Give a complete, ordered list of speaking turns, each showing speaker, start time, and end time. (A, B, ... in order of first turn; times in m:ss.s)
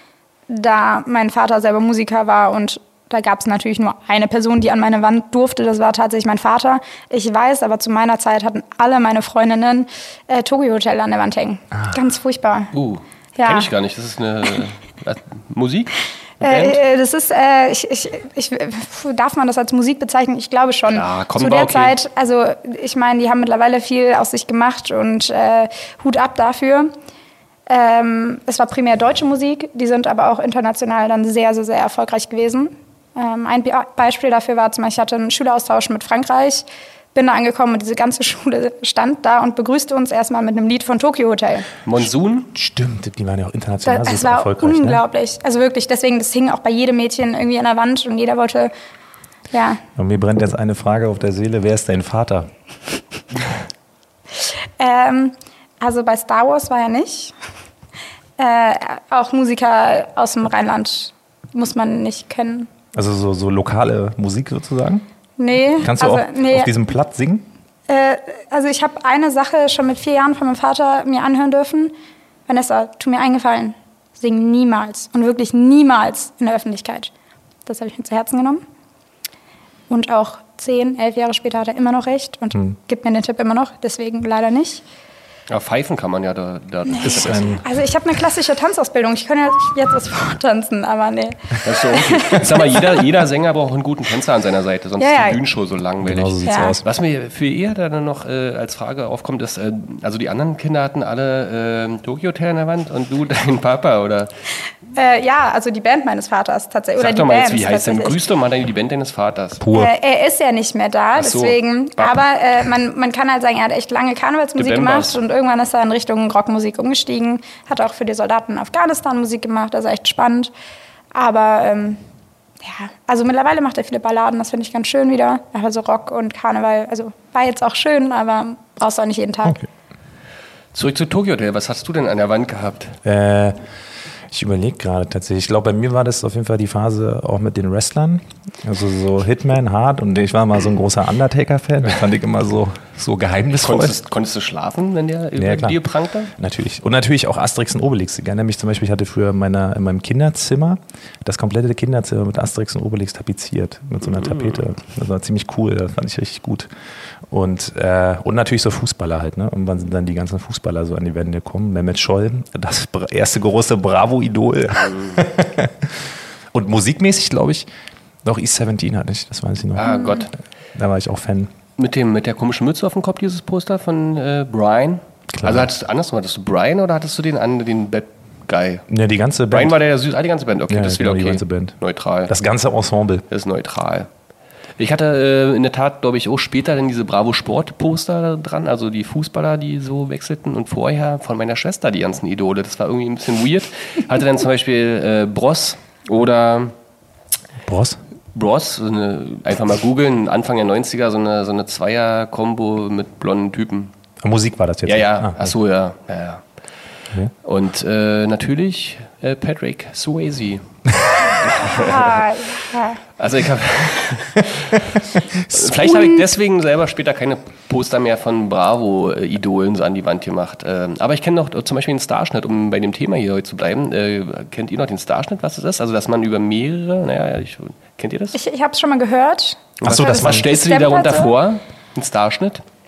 0:00.5-0:12.7 A
0:12.7-0:16.8 B
0:13.4-0:13.7 A
0:16.4-0:26.9 A
0:20.9-0:22.0 B
0:27.7-0:41.7 A
0:41.8-0:42.5 B
0:42.5-0:45.0 C
0:43.8-0:48.7 A
0:49.5-0:49.8 A
0:50.0-0:52.5 C
0:54.8-0:57.3 A
0:58.4-1:02.7 A
1:02.9-1:05.0 C
1:05.4-1:06.7 A
1:05.8-1:07.5 C
1:07.9-1:11.9 A
1:12.5-1:17.1 A
1:17.7-1:18.6 A
1:19.9-1:24.8 A
1:25.5-1:27.6 B
1:26.9-1:32.5 A
1:27.0-1:27.7 C
1:31.6-1:44.3 B
1:35.0-1:35.4 A
1:36.0-1:36.9 C
1:36.4-1:36.8 A
1:45.0-1:48.2 A
1:47.0-1:49.6 B
1:49.6-1:49.9 C
1:49.7-2:00.5 A
1:51.2-1:52.2 B
1:54.6-1:55.2 B
2:01.1-2:02.0 A
2:02.6-2:09.6 A
2:10.7-2:13.0 B
2:13.0-2:13.6 C
2:14.3-2:24.0 C
2:23.6-2:26.3 B
2:25.4-2:25.8 C
2:26.4-2:36.7 C
2:34.1-2:34.6 B
2:37.3-2:45.9 C
2:46.5-2:47.7 C
2:48.2-2:50.1 C
2:49.8-2:50.3 B
2:49.8-2:50.2 A
2:50.8-2:51.5 C
2:51.8-2:58.9 B
2:55.3-2:55.7 C
2:58.9-2:59.8 C
2:59.5-3:02.3 B
3:00.7-3:01.8 C
3:02.3-3:03.2 C
3:03.3-3:04.1 B
3:04.8-3:16.7 B
3:17.7-3:18.0 C
3:18.3-3:23.9 B
3:24.2-3:25.5 C
3:24.8-3:26.4 B
3:27.4-3:30.6 B
3:31.3-3:32.2 B
3:31.6-3:33.0 A
3:33.2-3:48.4 B
3:48.3-3:51.3 A
3:49.8-3:50.4 C
3:49.8-3:52.6 B